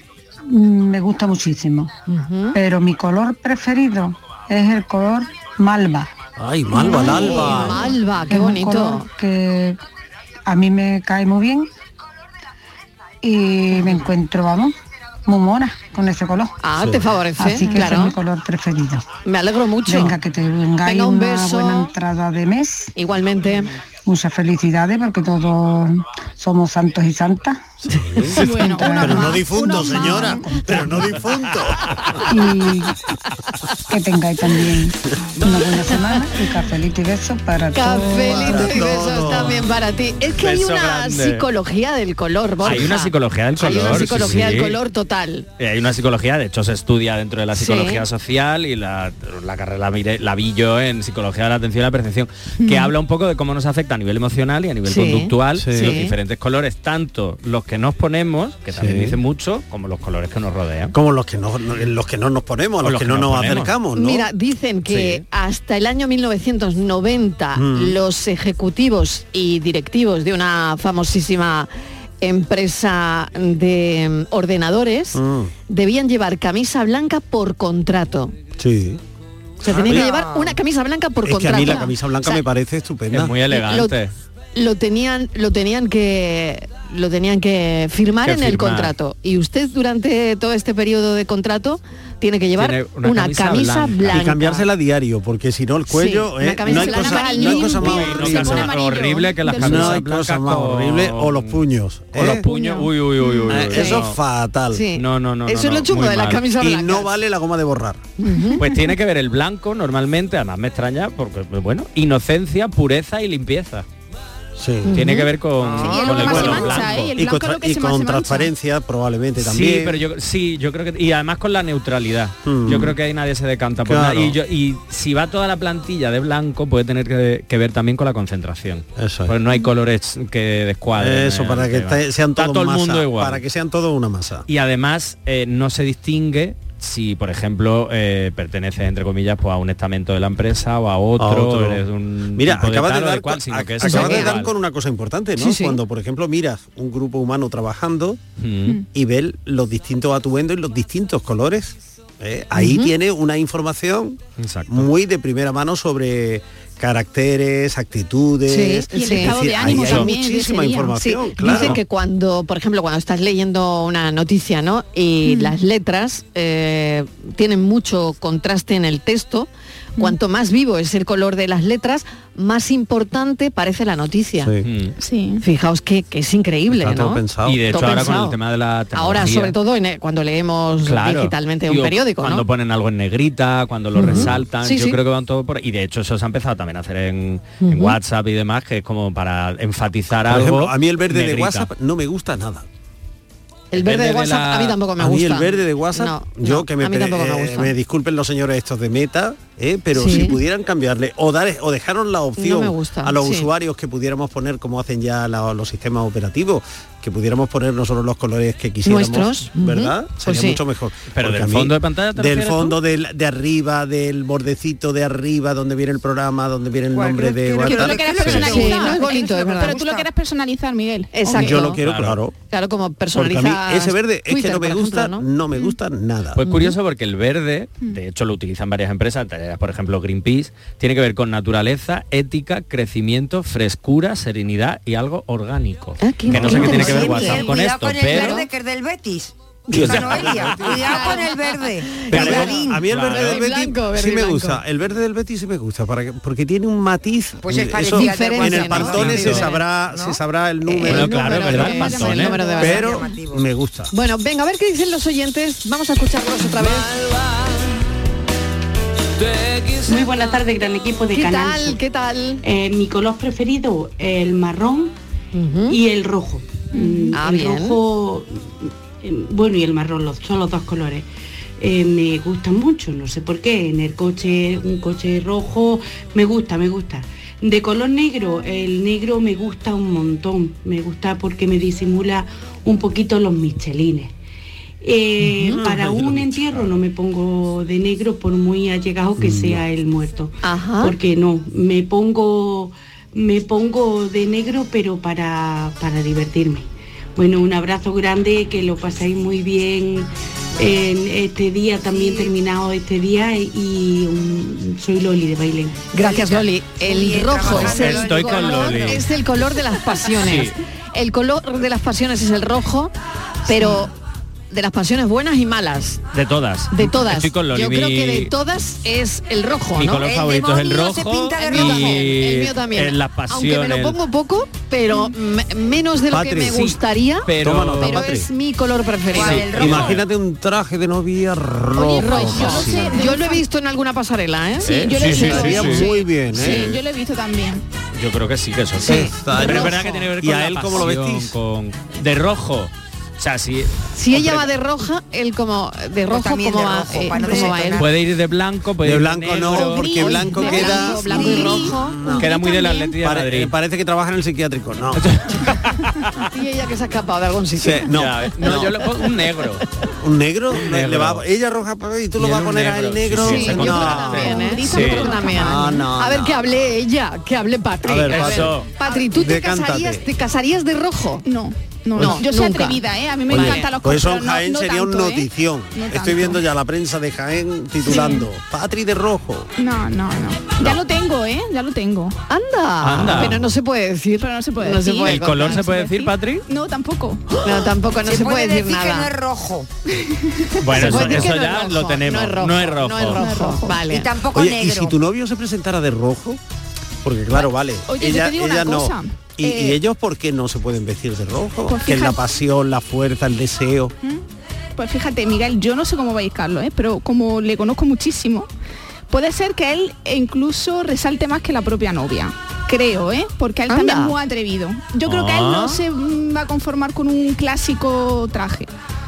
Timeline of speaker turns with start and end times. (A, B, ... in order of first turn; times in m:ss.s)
0:00.5-0:01.9 A
0:02.0-0:02.6 B
0:02.5-0:06.1 A
0:06.4-0:07.9 C
0:06.7-0:09.1 B
0:06.7-0:07.6 A
0:08.2-0:09.8 A
0:10.5-0:11.7 A
0:13.2-0:14.7 A
0:15.2-0:16.6 A
0:16.6-0:18.2 B
0:16.8-0:17.1 C
0:17.4-0:19.2 A
0:19.2-0:20.2 B
0:19.8-0:22.9 A
0:20.8-0:21.9 B
0:23.0-0:23.7 B
0:24.0-0:27.7 A
0:27.8-0:31.9 C
0:28.4-0:30.4 D
0:28.5-0:30.9 A
0:32.3-0:32.9 A
0:33.9-0:38.9 A
0:35.8-0:36.1 B
0:37.7-0:45.5 B
0:38.2-0:39.7 C
0:40.3-0:41.5 E
0:42.6-0:44.8 E
0:42.6-0:42.9 C
0:43.6-0:44.4 C
0:45.6-1:00.9 E
0:47.5-0:48.0 B
0:54.8-0:56.1 B
0:55.6-0:55.9 C
0:58.7-0:59.2 C
1:00.9-1:04.3 C
1:02.8-1:03.7 E
1:03.9-1:11.7 B
1:04.8-1:05.2 E
1:07.6-1:08.0 C
1:12.2-1:18.3 B
1:15.1-1:15.5 C
1:18.6-1:19.0 C
1:19.6-1:20.1 C
1:19.6-1:22.4 B
1:19.7-1:20.6 F
1:21.2-1:23.3 C
1:23.1-1:24.1 E
1:23.5-1:23.9 B
1:24.5-1:34.6 B
1:28.2-1:28.9 E
1:32.6-1:34.6 E
1:34.1-1:38.8 C
1:35.9-1:38.7 B
1:36.9-1:37.6 D
1:37.5-1:41.6 E
1:38.5-1:39.8 D
1:39.6-1:42.4 C
1:42.1-1:44.2 E
1:42.5-1:44.1 B
1:43.5-1:44.8 C
1:44.7-1:47.1 B
1:44.9-1:46.4 E
1:46.6-1:48.0 C
1:48.2-1:48.7 B
1:48.6-1:53.8 E
1:54.6-1:55.0 C
1:54.8-1:55.3 B
1:54.9-1:57.2 E
1:55.6-1:56.6 F
1:55.8-1:59.9 C
1:55.8-1:58.5 D
1:59.4-2:13.4 E
2:02.4-2:02.9 C
2:03.9-2:04.4 C
2:09.0-2:09.4 C
2:11.0-2:14.5 C
2:14.5-2:24.5 E
2:21.2-2:21.8 C
2:22.4-2:28.2 C
2:23.8-2:24.4 B
2:25.4-2:25.8 B
2:28.4-2:28.8 E
2:28.9-2:41.8 C
2:32.5-2:32.9 B
2:34.4-2:34.9 E
2:38.5-2:40.1 B
2:38.9-2:40.9 D
2:39.6-2:40.1 E
2:40.9-2:54.5 B
2:41.4-2:41.8 E
2:45.2-2:45.5 D
2:54.4-2:54.7 C
2:54.6-2:54.9 E
2:55.0-2:55.4 D
2:55.4-2:58.4 B
2:56.7-2:57.7 C
2:57.4-2:59.6 E
2:58.9-3:02.4 B
3:00.8-3:11.7 E
3:04.0-3:05.0 B
3:04.0-3:04.4 C
3:07.6-3:08.0 B
3:10.3-3:12.6 C
3:13.7-3:17.7 B
3:13.7-3:14.9 E
3:15.0-3:38.7 C
3:19.9-3:20.4 B
3:22.4-3:23.5 B
3:28.8-3:30.6 B
3:31.1-3:32.8 E
3:36.9-3:40.1 F
3:37.6-3:41.6 D
3:37.9-3:38.5 G
3:38.4-3:39.9 B
3:41.1-3:41.8 B
3:41.3-3:42.3 C
3:41.7-3:42.2 E
3:42.5-3:45.3 B
3:43.1-3:46.4 C
3:46.4-3:58.4 E
3:46.4-3:46.7 B
3:56.0-3:57.5 B
3:56.3-4:02.8 F
3:56.4-3:56.7 C
3:58.1-3:58.5 B
3:59.7-4:04.6 B
3:59.7-4:01.1 E
3:59.8-4:00.4 C
4:02.1-4:03.4 E
4:02.1-4:11.7 C
4:07.4-4:09.3 F
4:07.8-4:09.6 B
4:08.8-4:09.5 E
4:09.9-4:10.2 F
4:10.6-4:13.0 B
4:10.9-4:12.6 E
4:11.7-4:12.6 D
4:12.6-4:13.9 C
4:12.6-4:13.4 F
4:13.9-4:17.0 B
4:19.8-4:21.8 D
4:21.1-4:22.4 B
4:22.4-4:24.9 D
4:25.3-4:25.8 B
4:25.7-4:31.0 D
4:27.1-4:27.8 B
4:31.6-4:44.1 D
4:44.8-5:05.8 D
4:45.3-4:45.6 B
4:45.4-4:46.8 C
4:49.2-4:49.6 C
4:50.4-4:50.9 B
5:01.9-5:02.3 F
5:05.9-5:12.9 B
5:06.0-5:09.0 F
5:07.4-5:09.0 E
5:10.2-5:10.6 E
5:13.4-5:13.9 B
5:14.5-5:16.0 B
5:16.1-5:18.3 E
5:16.7-5:20.1 B
5:19.7-5:24.0 E
5:20.0-5:22.1 F
5:21.4-5:29.6 B
5:26.1-5:26.6 C
5:26.5-5:28.2 E
5:27.4-5:28.3 C
5:29.1-5:30.0 F
5:29.1-5:30.0 E
5:29.5-5:33.0 C
5:31.8-5:36.8 B
5:31.9-5:33.4 D
5:34.6-5:36.8 C
5:34.8-5:35.7 D
5:35.0-5:36.7 E
5:36.3-5:36.8 D
5:37.9-5:44.5 E
5:38.8-5:40.0 B
5:38.8-5:41.3 C
5:43.9-5:47.8 B
5:46.0-5:47.9 F
5:47.4-5:50.2 E
5:48.8-5:52.3 C
5:49.6-5:52.9 B
5:50.4-5:51.7 F
5:52.2-5:53.5 E
5:53.0-5:55.1 C
5:54.9-5:55.8 E
5:56.3-5:58.8 B
5:57.6-5:58.7 C
5:57.8-5:59.6 E
6:00.0-6:06.4 C
6:00.5-6:01.2 E
6:02.2-6:05.3 E
6:03.2-6:11.2 B
6:04.2-6:05.6 D
6:07.8-6:10.0 C
6:08.1-6:08.7 E
6:11.9-6:15.0 D
6:12.0-6:13.7 B
6:13.3-6:19.5 C
6:13.8-6:15.2 G
6:15.8-6:16.3 G
6:17.8-6:18.2 D
6:19.7-6:21.7 G
6:22.3-6:25.7 B
6:22.8-6:23.5 E
6:24.2-6:25.6 D
6:25.0-6:26.4 E
6:27.4-6:29.1 B
6:28.0-6:29.7 F
6:30.6-6:33.2 E
6:30.7-6:34.2 B
6:30.8-6:31.3 C
6:33.2-6:33.8 D
6:33.8-6:35.0 F
6:34.3-6:36.4 C
6:37.0-6:43.9 C
6:37.9-6:38.9 D
6:38.2-6:38.6 G
6:39.4-6:39.8 B
6:41.7-6:42.1 G
6:53.7-6:54.2 B
6:53.7-6:54.1 D
6:54.9-6:55.5 G
6:55.0-6:55.8 E